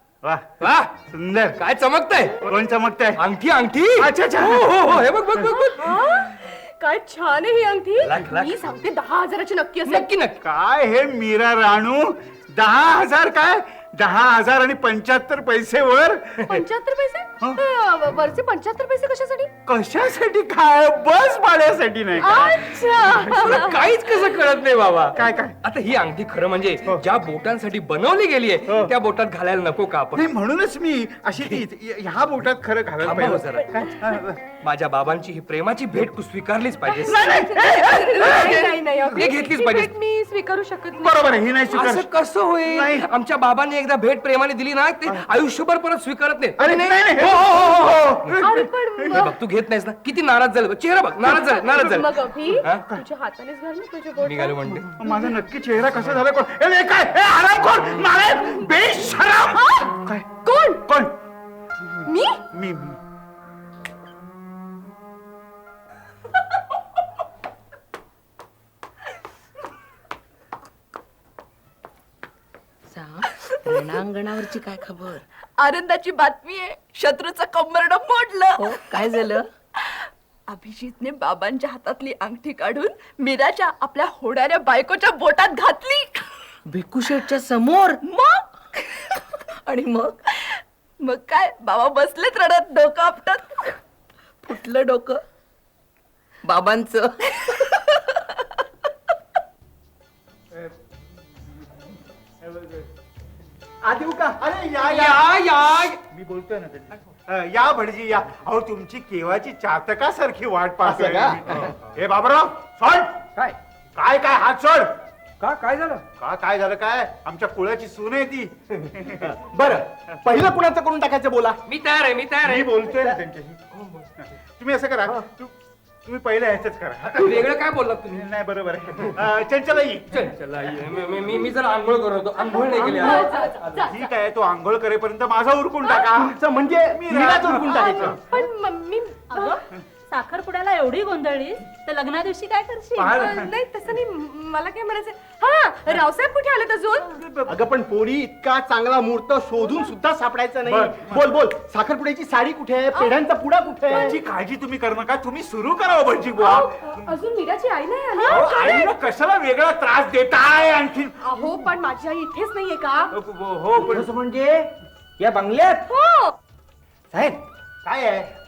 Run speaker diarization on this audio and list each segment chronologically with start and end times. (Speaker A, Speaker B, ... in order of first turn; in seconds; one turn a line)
Speaker A: 0.2-0.5
Speaker B: 0.6-0.9
Speaker A: 1.1-1.6
Speaker B: 1.6-2.5
Speaker A: 2.5-3.2
Speaker B: 3.1-5.8
Speaker A: 4.0-5.0
Speaker C: 5.4-10.1
Speaker B: 8.0-8.6
Speaker B: 9.8-10.4
Speaker A: 10.4-16.5
Speaker C: 16.5-19.5
Speaker A: 19.6-23.2
Speaker C: 22.2-23.8
Speaker B: 23.2-30.2
Speaker A: 25.1-25.6
Speaker A: 28.6-28.9
Speaker A: 30.1-34.4
Speaker B: 33.0-33.7
Speaker B: 34.6-37.2
Speaker A: 37.0-38.5
Speaker C: 37.1-41.2
Speaker B: 37.9-39.9
Speaker A: 41.0-43.1
Speaker B: 41.7-48.3
Speaker A: 46.6-49.2
Speaker C: 48.4-49.4
Speaker B: 49.1-52.8
Speaker C: 51.2-54.6
Speaker A: 52.7-53.0
Speaker B: 54.2-54.9
Speaker A: 54.7-60.3
Speaker C: 59.5-59.9
Speaker C: 60.4-60.9
Speaker A: 60.8-61.2
Speaker A: 61.8-63.0
Speaker C: 62.1-62.4
Speaker D: 73.8-79.1
Speaker E: 78.6-79.4
Speaker D: 80.5-86.2
Speaker E: 86.7-88.0
Speaker D: 88.1-93.7
Speaker D: 94.5-95.2
Speaker D: 96.5-97.1
Speaker A: 102.4-102.8
Speaker F: 103.8-105.1
Speaker A: 104.4-105.2
Speaker B: 104.8-106.0
Speaker A: 106.1-113.2
Speaker F: 110.8-111.7
Speaker A: 113.9-115.0
Speaker B: 115.4-116.0
Speaker A: 116.2-119.3
Speaker F: 119.2-121.6
Speaker B: 121.7-122.8
Speaker A: 122.4-123.6
Speaker F: 122.8-123.2
Speaker B: 123.7-124.1
Speaker A: 124.2-125.5
Speaker A: 126.0-127.5
Speaker B: 127.2-128.3
Speaker A: 128.1-130.3
Speaker B: 130.1-133.9
Speaker C: 132.5-134.0
Speaker A: 133.9-136.4
Speaker C: 135.8-136.1
Speaker F: 136.3-138.4
Speaker A: 136.9-138.1
Speaker C: 137.9-139.6
Speaker G: 139.3-139.6
Speaker G: 140.1-143.0
Speaker C: 142.9-147.1
Speaker A: 143.0-143.5
Speaker A: 147.1-147.6
Speaker F: 147.5-154.1
Speaker A: 150.7-151.3
Speaker A: 153.9-157.2
Speaker C: 156.4-158.9
Speaker A: 158.3-161.6
Speaker C: 161.2-163.1
Speaker A: 163.1-164.1
Speaker F: 163.8-165.8
Speaker C: 165.9-166.3
Speaker F: 167.1-167.4
Speaker A: 167.8-168.3